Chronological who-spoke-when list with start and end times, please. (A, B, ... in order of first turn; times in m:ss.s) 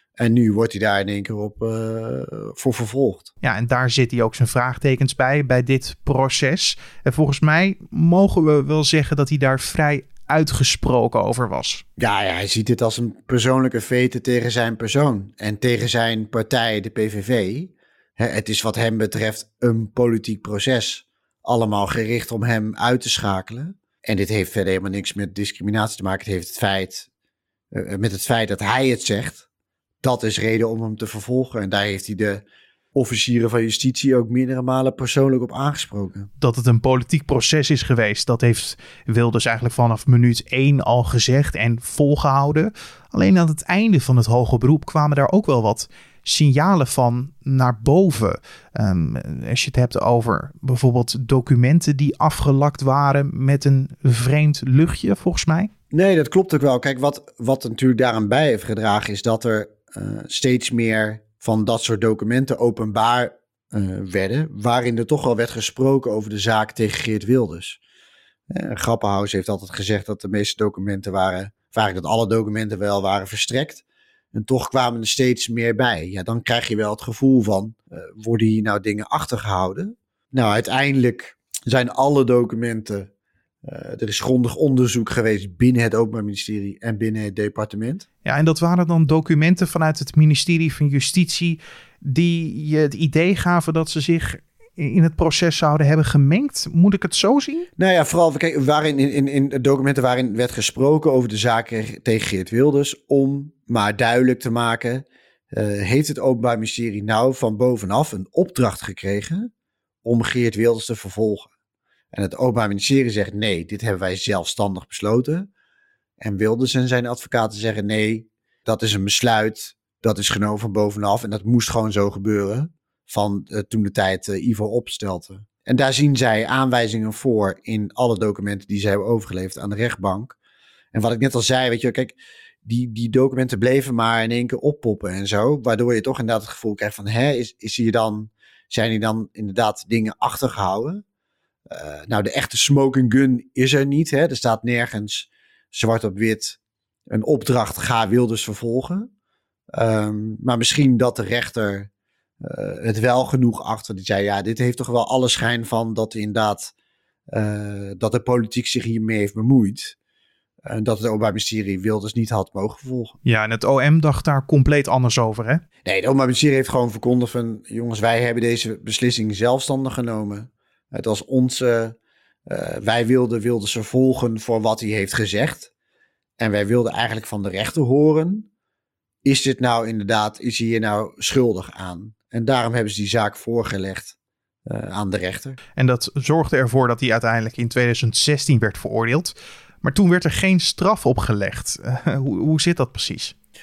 0:00.2-0:03.3 A
0:03.4-0:11.8 B
0:12.0-0:27.1 A
0:27.7-0:29.5 A
0:30.0-0:36.3 A
0:36.4-0:55.7 B
0:55.9-1:07.8 A
1:08.5-1:23.1 A
1:23.6-1:28.0 A
1:28.2-1:37.7 B
1:37.8-1:49.5 A
1:50.0-1:51.5 A
1:52.1-1:55.5 A
1:56.2-2:10.4 A
2:10.9-2:21.0 A
2:21.7-2:29.1 A
2:29.7-2:31.9 A
2:32.4-2:36.7 A
2:37.3-2:40.0 A
2:40.6-2:43.1 A
2:43.2-2:45.6 B
2:45.8-2:52.0 A
2:52.5-2:55.7 A
2:56.4-2:58.5 A
2:59.2-3:05.6 A
3:05.8-3:13.3 B